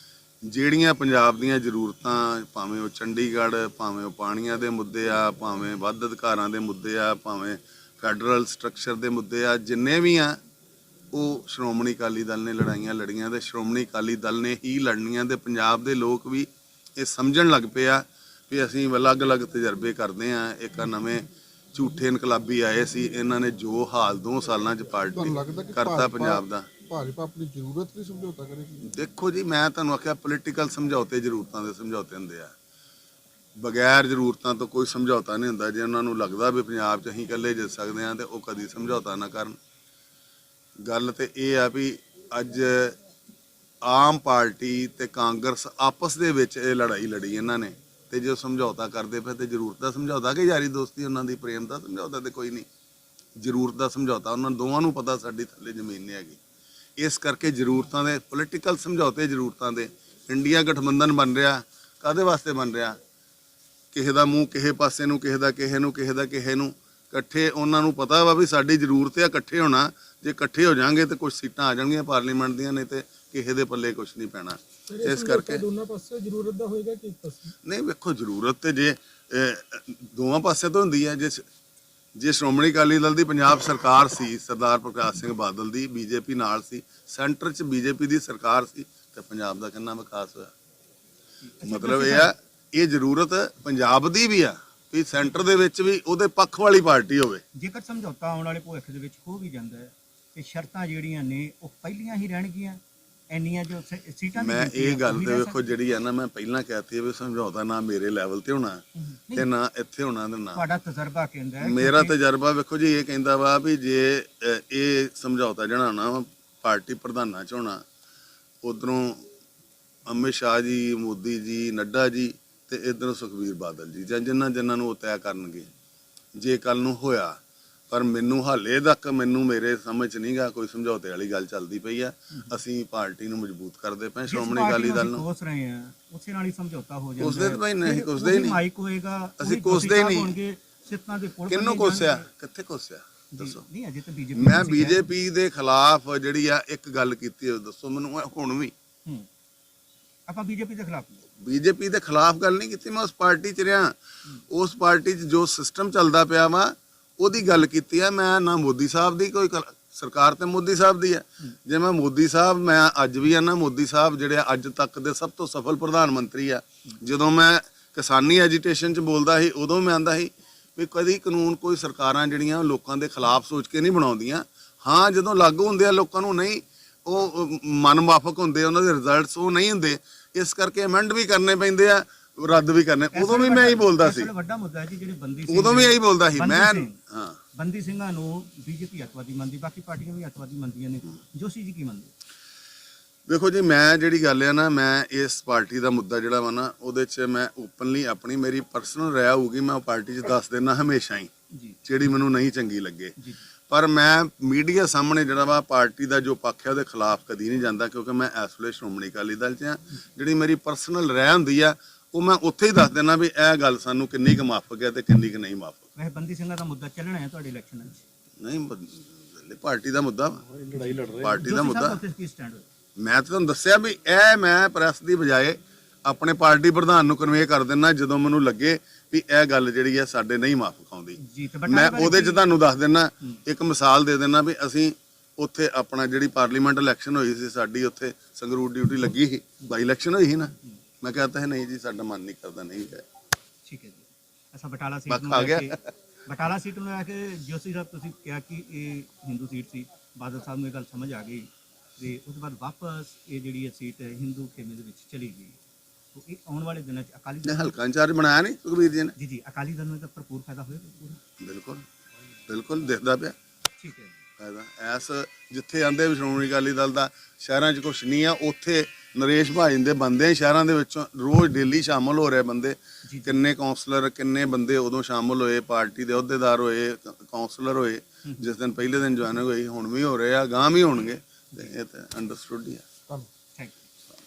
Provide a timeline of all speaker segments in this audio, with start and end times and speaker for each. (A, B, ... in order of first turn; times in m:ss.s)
0:00.4-0:10.4 A
0:11.1-0:26.7 A
0:25.4-0:25.7 B
0:26.3-0:28.8 B
0:28.8-0:32.5 A
0:33.6-0:39.6 A
0:40.8-0:43.0 A
0:43.8-0:52.6 A
0:53.4-0:56.4 A
0:57.0-1:03.0 A
1:03.9-1:15.7 A
1:15.0-1:17.5 C
1:17.6-1:21.4 A
1:22.2-1:30.5 A
1:31.6-1:32.3 D
1:31.6-1:37.4 A
1:37.5-1:45.6 D
1:44.4-1:50.6 A
1:49.1-1:49.5 D
1:50.5-1:52.1 D
1:51.6-1:57.8 A
1:58.6-1:59.2 A
2:00.0-2:05.7 A
2:06.4-2:07.4 A
2:07.9-2:15.2 A
2:14.3-2:22.3 D
2:17.2-2:18.6 A
2:19.4-2:20.4 A
2:21.5-2:23.6 A
2:23.3-2:25.0 D
2:24.3-2:28.7 A
2:30.3-2:31.2 D
2:31.4-2:33.9 A
2:34.5-3:04.3 A
3:03.1-3:06.9 D
3:05.5-3:07.4 A
3:07.5-3:12.1 D
3:13.3-3:21.3 A
3:21.5-3:21.8 D
3:21.8-3:23.2 A
3:23.7-3:35.9 A
3:36.0-3:38.0 D
3:38.4-3:42.0 A
3:40.8-3:42.6 D
3:43.0-4:03.0 A
3:51.2-3:52.5 D
4:03.6-4:15.6 D
4:05.1-4:05.8 A
4:16.1-4:17.7 D
4:17.4-4:19.1 A
4:19.2-4:21.2 D
4:21.4-4:21.8 A
4:22.5-4:23.3 A
4:23.8-4:24.2 D
4:24.4-4:42.8 A
4:33.0-4:33.4 D